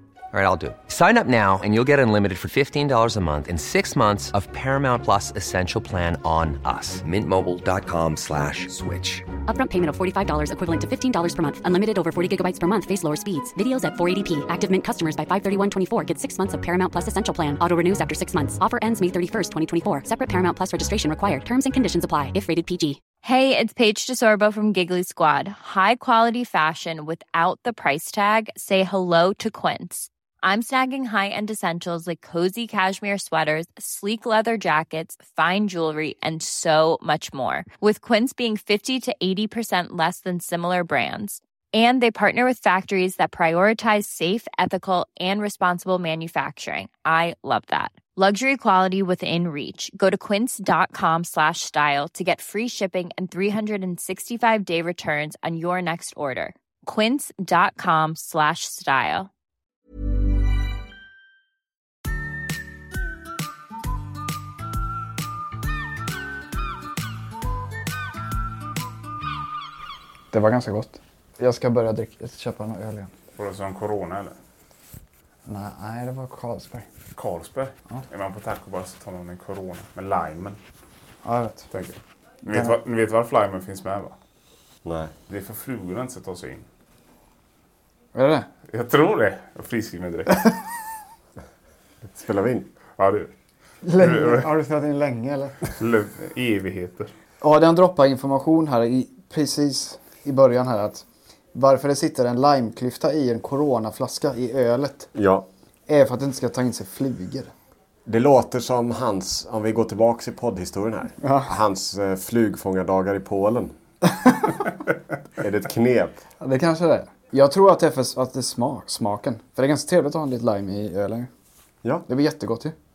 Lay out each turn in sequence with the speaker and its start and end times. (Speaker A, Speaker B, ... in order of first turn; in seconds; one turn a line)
Speaker A: 0.3-9.2
Speaker B: 9.5-23.0
Speaker C: 23.2-59.3
Speaker D: 70.3-73.1
Speaker E: 73.4-74.4
Speaker D: 75.5-76.9
Speaker E: 77.2-80.6
Speaker D: 81.2-81.7
Speaker E: 81.7-84.2
Speaker F: 84.8-85.1
Speaker E: 85.3-86.7
Speaker D: 88.2-88.5
Speaker E: 88.7-90.5
Speaker F: 92.1-92.7
Speaker E: 93.0-93.3
Speaker D: 93.8-95.6
Speaker E: 94.0-94.5
Speaker E: 95.8-97.1
Speaker D: 97.4-105.1
Speaker F: 105.1-105.5
Speaker D: 105.9-107.5
Speaker F: 108.1-113.7
Speaker D: 111.2-111.5
Speaker D: 114.1-114.5
Speaker F: 115.4-116.2
Speaker D: 116.4-121.3
Speaker D: 122.1-122.7